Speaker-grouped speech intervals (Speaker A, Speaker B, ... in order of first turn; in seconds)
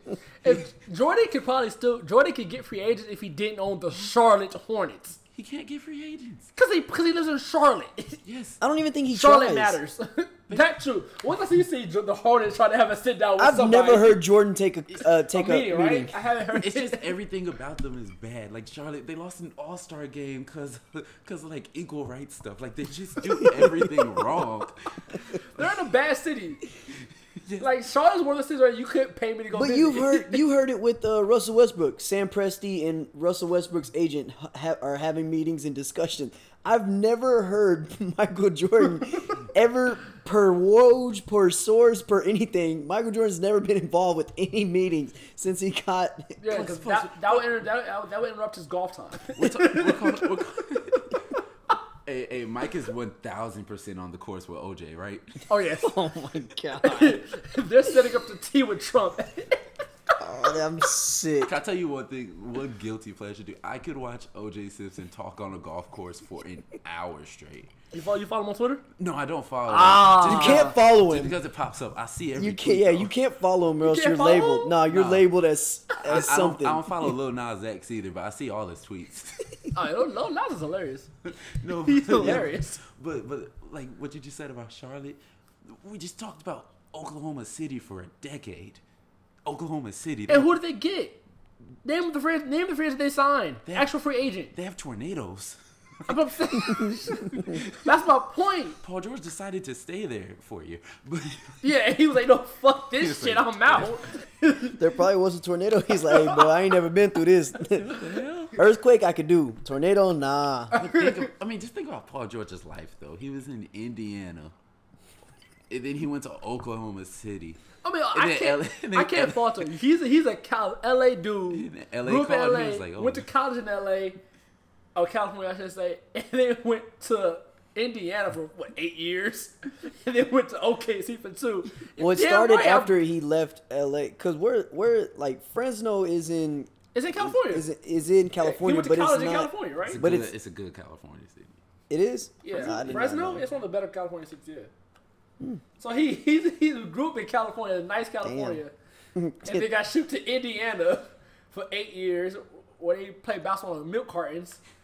Speaker A: 0.4-5.2, 6.6-8.2, 9.1-14.3, 14.9-17.1, 25.3-26.6, 27.6-30.4, 46.4-50.3, 55.5-56.0, 56.8-59.7, 67.9-68.8, 69.7-70.7, 73.8-74.8, 79.7-81.1, 81.8-82.8, 90.3-91.2, 91.8-94.5, 96.1-98.8, 101.6-104.8, 106.0-106.6, 117.8-124.2, 125.0-133.0, 136.9-137.7, 138.4-140.0, 142.4-144.7, 145.8-148.7, 149.4-154.6
Speaker B: 5.3-6.5, 8.2-8.6, 16.6-25.7, 27.4-27.7, 49.4-51.3, 52.0-55.5, 61.5-67.7, 69.0-73.1, 74.9-75.3, 76.0-79.5, 81.3-88.8, 89.5-90.5, 93.7-93.9, 94.5-97.8, 98.8-101.6, 103.0-104.0, 107.6-108.6, 110.8-114.5, 115.7-117.6, 118.1-119.7, 121.5-123.3, 139.9-141.6, 142.5-143.1
Speaker C: 8.6-9.8, 13.4-16.1, 29.5-47.5, 55.8-57.2, 60.2-61.5, 70.2-71.4, 72.3-77.2, 82.2-82.5, 104.8-108.0, 108.6-110.9, 132.0-140.3, 141.9-143.4, 148.2-148.6, 149.2-149.7